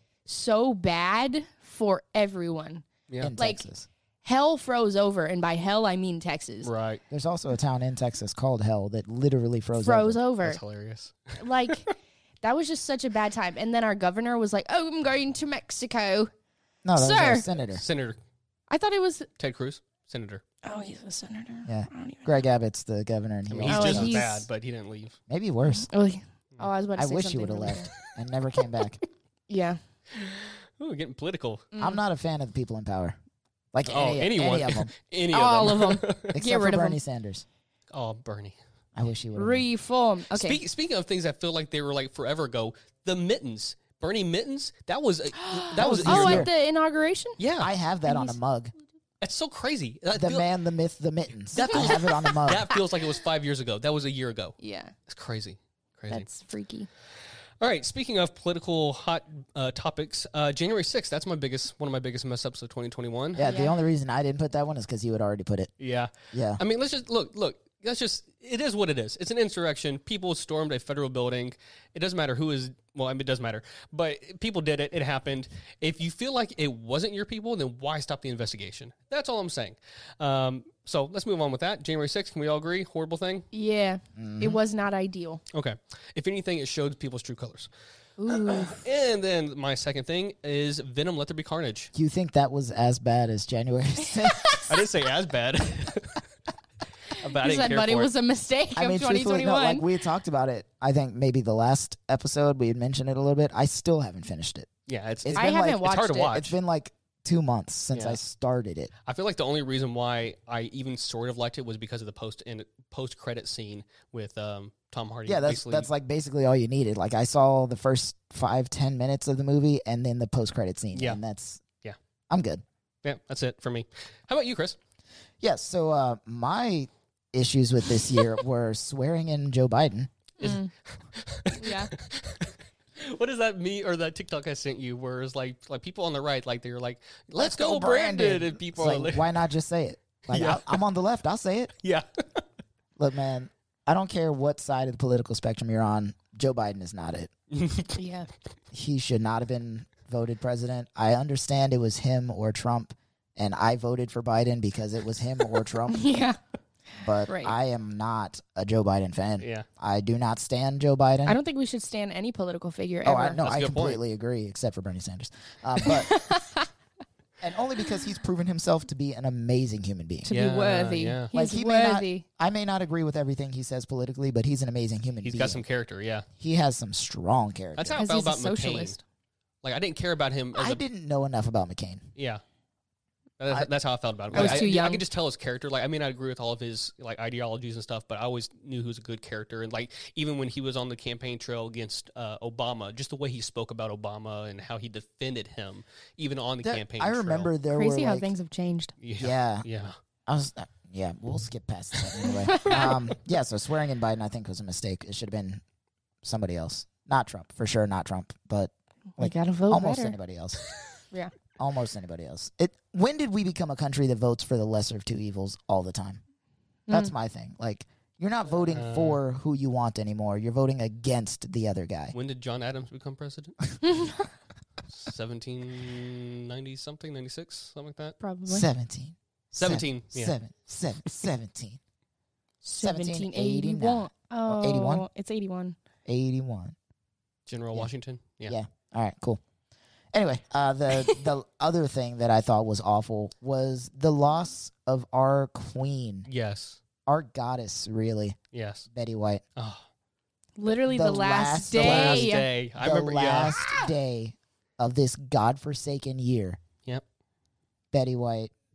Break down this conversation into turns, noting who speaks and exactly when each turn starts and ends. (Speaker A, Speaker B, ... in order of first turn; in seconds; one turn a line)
Speaker A: 0.2-3.7
Speaker B: 3.1-3.3
Speaker C: 3.2-3.9
Speaker A: 4.2-6.7
Speaker B: 6.6-7.0
Speaker C: 7.1-10.2
Speaker A: 9.8-10.6
Speaker B: 10.4-11.9
Speaker A: 11.4-16.3
Speaker C: 16.8-17.8
Speaker A: 16.9-17.5
Speaker B: 17.7-18.2
Speaker A: 18.7-19.3
Speaker B: 19.4-20.4
Speaker A: 20.6-22.3
Speaker C: 21.6-24.2
Speaker B: 23.5-25.2
Speaker A: 23.7-24.5
Speaker C: 25.3-25.9
Speaker A: 25.9-27.9
Speaker C: 26.9-29.0
Speaker A: 29.5-29.8
Speaker B: 30.2-31.7
Speaker A: 31.7-32.0
Speaker C: 31.8-33.2
Speaker C: 33.7-34.9
Speaker B: 33.9-36.3
Speaker A: 35.3-37.0
Speaker C: 36.3-37.4
Speaker B: 37.9-38.6
Speaker C: 38.9-39.6
Speaker A: 39.3-40.6
Speaker B: 40.3-46.5
Speaker A: 45.4-47.4
Speaker C: 45.8-46.5
Speaker B: 47.4-47.7
Speaker C: 47.6-48.7
Speaker A: 48.0-48.4
Speaker B: 49.2-50.5
Speaker C: 50.1-52.7
Speaker B: 51.5-56.3
Speaker A: 51.5-52.8
Speaker A: 54.6-54.9
Speaker A: 56.1-56.9
Speaker B: 57.6-63.4
Speaker C: 63.4-65.7
Speaker A: 63.4-63.8
Speaker B: 65.8-83.5
Speaker C: 66.3-66.6
Speaker A: 83.5-85.4
Speaker C: 84.2-84.6
Speaker B: 85.5-87.7
Speaker A: 88.2-88.8
Speaker B: 88.3-91.9
Speaker C: 91.9-94.6
Speaker A: 94.2-94.6
Speaker B: 94.7-96.2
Speaker B: 97.1-98.1
Speaker A: 97.2-99.8
Speaker C: 98.7-104.7
Speaker B: 104.9-106.5
Speaker C: 105.2-108.9
Speaker A: 105.3-106.4
Speaker B: 107.9-108.2
Speaker B: 109.0-115.9
Speaker C: 115.2-121.6
Speaker B: 120.9-121.2
Speaker C: 122.3-122.6
Speaker B: 123.0-124.8
Speaker C: 125.4-130.1
Speaker A: 130.4-130.7
Speaker B: 130.4-139.3
Speaker A: 131.6-131.9
Speaker C: 137.4-141.7
Speaker B: 140.3-140.8
Speaker B: 141.8-142.4
Speaker C: 143.0-147.3
Speaker B: 147.5-148.0
Speaker A: 147.9-148.3
Speaker C: 148.7-156.1
Speaker A: 155.9-156.4
Speaker C: 157.0-161.4
Speaker A: 157.3-157.5
Speaker B: 159.4-159.7
Speaker A: 161.2-163.4
Speaker C: 163.0-166.2
Speaker B: 163.4-164.0
Speaker A: 165.8-166.7
Speaker C: 167.4-170.3
Speaker A: 170.2-172.2
Speaker B: 170.3-171.3
Speaker C: 171.3-175.6
Speaker B: 175.2-176.2
Speaker C: 176.4-178.0
Speaker B: 177.8-179.0
Speaker A: 177.9-179.0
Speaker B: 179.6-180.8
Speaker C: 180.5-182.1
Speaker B: 182.2-182.4
Speaker B: 183.4-197.5
Speaker C: 184.3-184.6
Speaker A: 184.3-185.0
Speaker C: 196.6-198.3
Speaker A: 197.7-198.9
Speaker B: 199.0-199.9
Speaker C: 199.2-199.7
Speaker C: 200.3-205.6
Speaker B: 202.0-202.2
Speaker A: 202.3-203.0
Speaker C: 206.2-210.6
Speaker A: 209.2-210.2
Speaker C: 211.6-216.2
Speaker C: 216.9-222.1
Speaker B: 218.7-219.2
Speaker B: 222.1-223.6
Speaker A: 223.8-224.3
Speaker B: 224.9-228.2
Speaker A: 228.2-228.7
Speaker C: 228.5-231.8
Speaker B: 229.6-230.3
Speaker A: 232.6-235.8
Speaker C: 232.8-235.1
Speaker C: 236.1-236.8
Speaker B: 237.5-238.6
Speaker C: 238.5-239.4
Speaker C: 240.1-246.3
Speaker B: 246.3-246.8
Speaker C: 247.1-248.4
Speaker B: 248.5-248.8
Speaker C: 248.9-249.4
Speaker B: 249.6-249.8
Speaker A: 250.6-252.5
Speaker C: 250.9-256.6
Speaker B: 251.7-253.6
Speaker C: 257.9-258.5